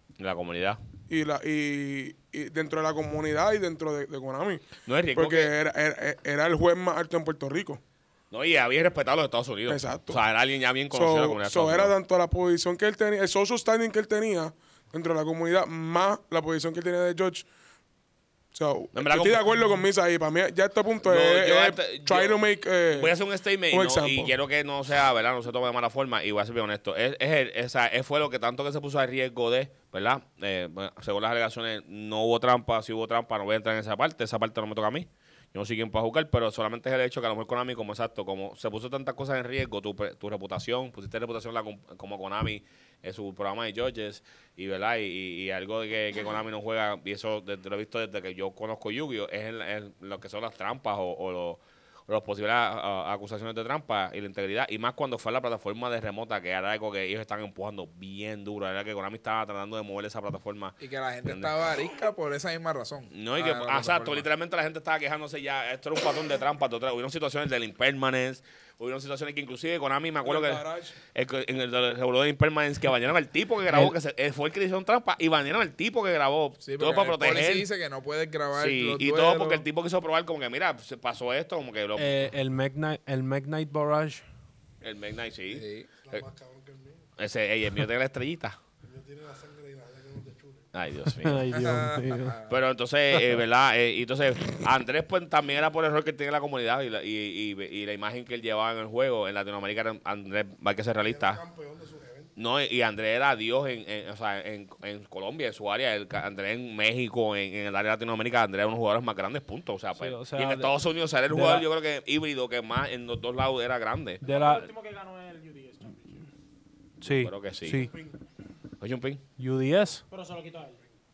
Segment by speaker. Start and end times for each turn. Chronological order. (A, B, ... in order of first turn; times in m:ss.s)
0:00.2-0:00.8 A
0:01.1-0:07.8 B
0:04.9-0:05.5 A
0:08.3-0:11.9 A
0:09.7-0:10.2 B
0:10.9-0:17.5 B
0:18.5-0:23.2 B
0:18.9-0:19.5 A
0:21.0-0:22.4 A
0:22.9-1:01.6 A
0:23.7-0:24.3 B
1:00.8-1:04.2 C
1:03.1-1:17.7 A
1:10.2-1:11.0 B
1:13.7-1:13.9 D
1:16.6-1:19.6 C
1:18.5-1:22.3 A
1:22.0-1:24.2 D
1:24.8-1:26.2 A
1:25.5-1:25.9 C
1:26.0-1:27.0 E
1:27.2-1:28.6 A
1:28.8-1:30.7 E
1:30.7-1:31.5 A
1:31.0-1:32.4 D
1:31.5-1:32.6 C
1:32.5-1:41.4 A
1:33.1-1:33.4 D
1:41.0-1:42.3 E
1:42.4-1:54.2 A
1:49.9-1:51.7 D
1:54.2-1:54.7 D
1:54.2-1:56.3 F
1:57.0-1:57.9 D
1:57.0-1:57.9 A
1:57.7-1:58.2 E
1:58.8-1:59.2 A
1:59.4-2:00.0 D
2:00.1-2:00.8 F